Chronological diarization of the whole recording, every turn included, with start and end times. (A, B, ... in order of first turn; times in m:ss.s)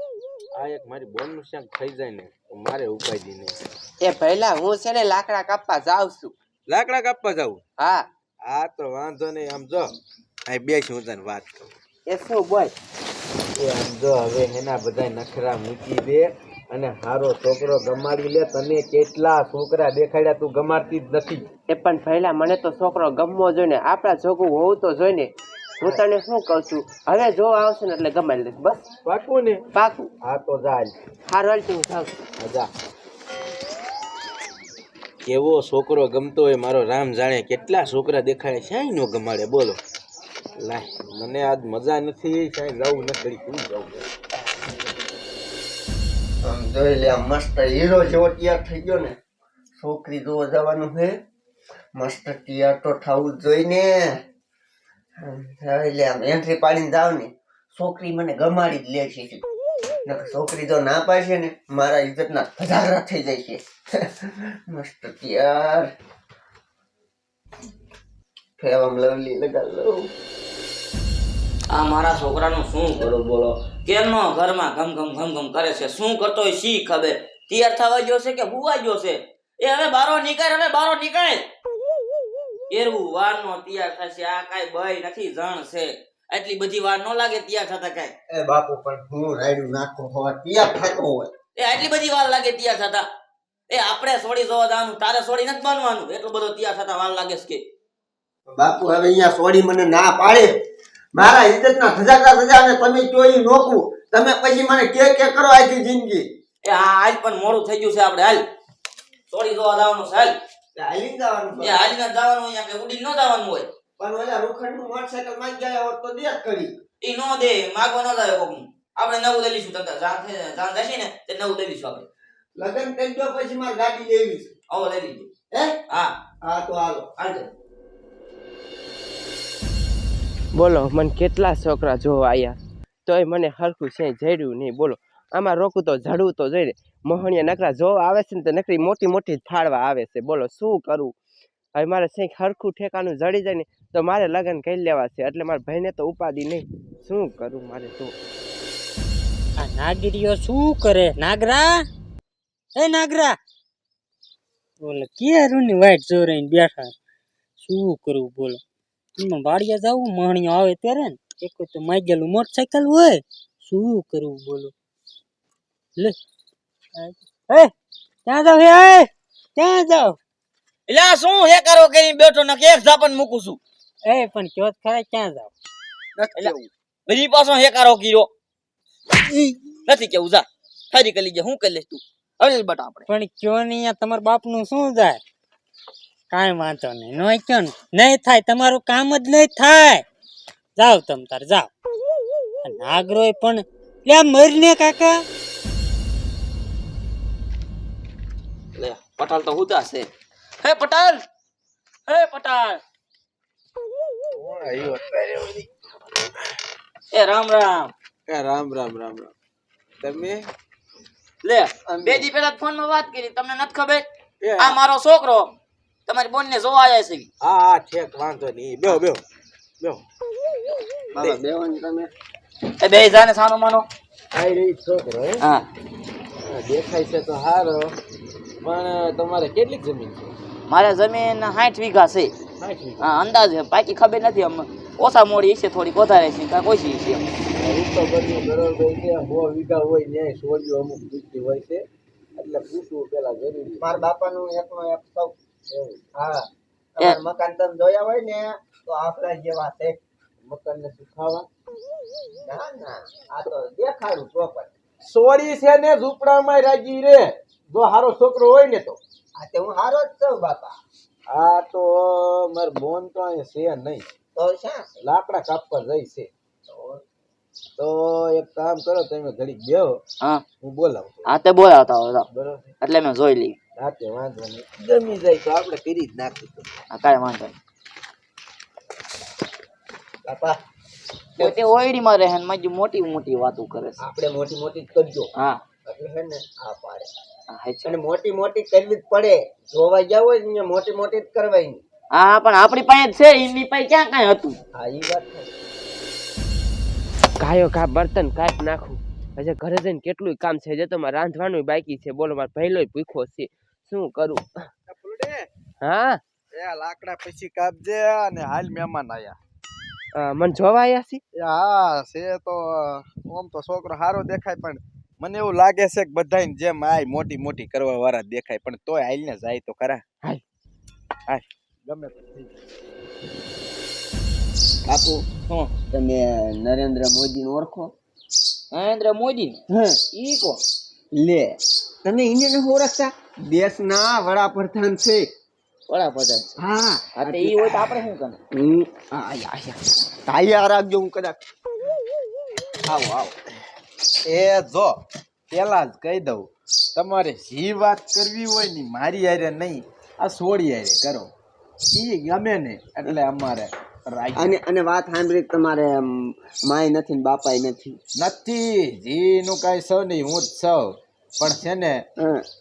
0:00.5-0:03.6 A
0:04.0-0:06.3 B
0:06.7-0:07.6 A
0:07.8-0:08.1 B
0:08.4-0:09.9 A
0:10.5-0:11.7 A
0:12.1-0:12.7 B
0:13.6-0:21.5 A
0:21.7-0:28.8 B
0:29.0-0:29.6 A
0:29.7-0:30.1 B
0:30.2-0:31.0 A
0:31.3-0:32.1 B
0:32.4-0:32.7 A
0:35.2-0:39.8 A
0:40.6-0:44.1 A
0:46.4-0:49.2 C
0:49.8-0:51.2 C
0:52.0-0:54.1 C
0:55.2-0:59.4 C
1:00.1-1:05.9 C
1:08.6-1:10.1 C
1:11.7-1:21.5 D
1:22.7-1:28.1 D
1:28.3-1:31.3 C
1:31.6-1:33.1 D
1:33.7-1:37.6 D
1:38.5-1:40.5 C
1:41.2-1:46.3 C
1:46.6-1:48.4 D
1:49.3-1:50.3 D
1:50.8-1:51.9 C
1:51.6-1:53.7 D
1:54.0-1:56.7 C
1:57.0-2:02.1 D
2:02.6-2:04.5 C
2:04.7-2:05.3 D
2:05.5-2:05.8 C
2:06.4-2:07.1 C
2:07.2-2:07.5 D
2:10.5-2:21.1 B
2:21.8-2:28.2 B
2:29.6-2:31.8 E
2:32.8-2:33.4 E
2:34.8-2:37.0 E
2:37.6-2:38.6 E
2:39.2-2:44.7 E
2:47.0-2:47.7 E
2:48.3-2:50.2 E
2:50.9-2:53.6 D
2:54.1-2:55.5 E
2:56.2-2:56.7 C
2:57.1-2:58.3 D
2:59.9-3:03.1 D
3:03.1-3:05.2 E
3:06.3-3:10.0 E
3:10.8-3:11.7 E
3:12.6-3:15.2 E
3:18.8-3:20.1 D
3:20.6-3:21.2 D
3:22.1-3:22.8 D
3:24.3-3:25.7 A
3:27.1-3:27.9 D
3:28.3-3:29.3 A
3:30.0-3:30.5 A
3:31.4-3:34.0 D
3:31.9-3:32.3 C
3:34.4-3:34.8 A
3:34.6-3:35.5 D
3:36.1-3:37.3 D
3:37.4-3:39.2 A
3:41.1-3:42.1 C
3:42.8-3:43.9 D
3:44.3-3:45.4 A
3:45.4-3:45.7 D
3:46.4-3:48.0 A
3:48.6-3:50.3 A
3:50.7-3:52.4 D
3:52.6-3:53.1 A
3:53.0-3:57.2 D
3:57.6-4:03.9 A
4:03.8-4:05.4 C
4:05.7-4:06.0 A
4:06.1-4:10.0 C
4:10.5-4:11.2 C
4:10.5-4:11.4 A
4:12.4-4:14.7 C
4:15.0-4:19.0 A
4:19.4-4:20.8 C
4:21.3-4:24.1 A
4:24.4-4:24.9 C
4:25.0-4:26.3 A
4:26.7-4:27.0 C
4:27.8-4:30.0 A
4:30.6-4:31.3 A
4:31.3-4:32.3 D
4:32.3-4:32.8 A
4:32.8-4:33.6 D
4:33.8-4:36.7 A
4:36.9-4:37.6 D
4:40.2-4:40.6 C
4:41.4-4:44.0 D
4:44.0-4:45.3 C
4:45.4-4:45.6 D
4:45.9-4:47.1 C
4:47.5-4:47.9 D
4:47.8-4:51.8 C
4:52.1-4:54.6 D
4:54.8-4:55.5 C
4:57.4-5:04.5 B
5:04.9-5:05.5 A
5:05.8-5:06.2 B
5:06.5-5:09.4 A
5:10.2-5:11.2 B
5:11.4-5:20.0 A
5:21.3-5:22.6 A
5:24.9-5:25.2 C
5:25.9-5:27.9 C
5:28.7-5:29.6 D
5:29.7-5:30.0 C
5:30.1-5:30.6 D
5:31.2-5:35.3 C
5:35.9-5:36.6 D
5:36.6-5:38.0 C
5:37.2-5:38.4 D
5:38.5-5:41.4 C
5:42.9-5:43.4 C
5:44.2-5:45.0 A
5:45.5-5:51.3 A
5:51.9-5:54.6 A
5:54.4-5:58.0 C
5:58.2-6:02.1 A
6:02.2-6:02.4 C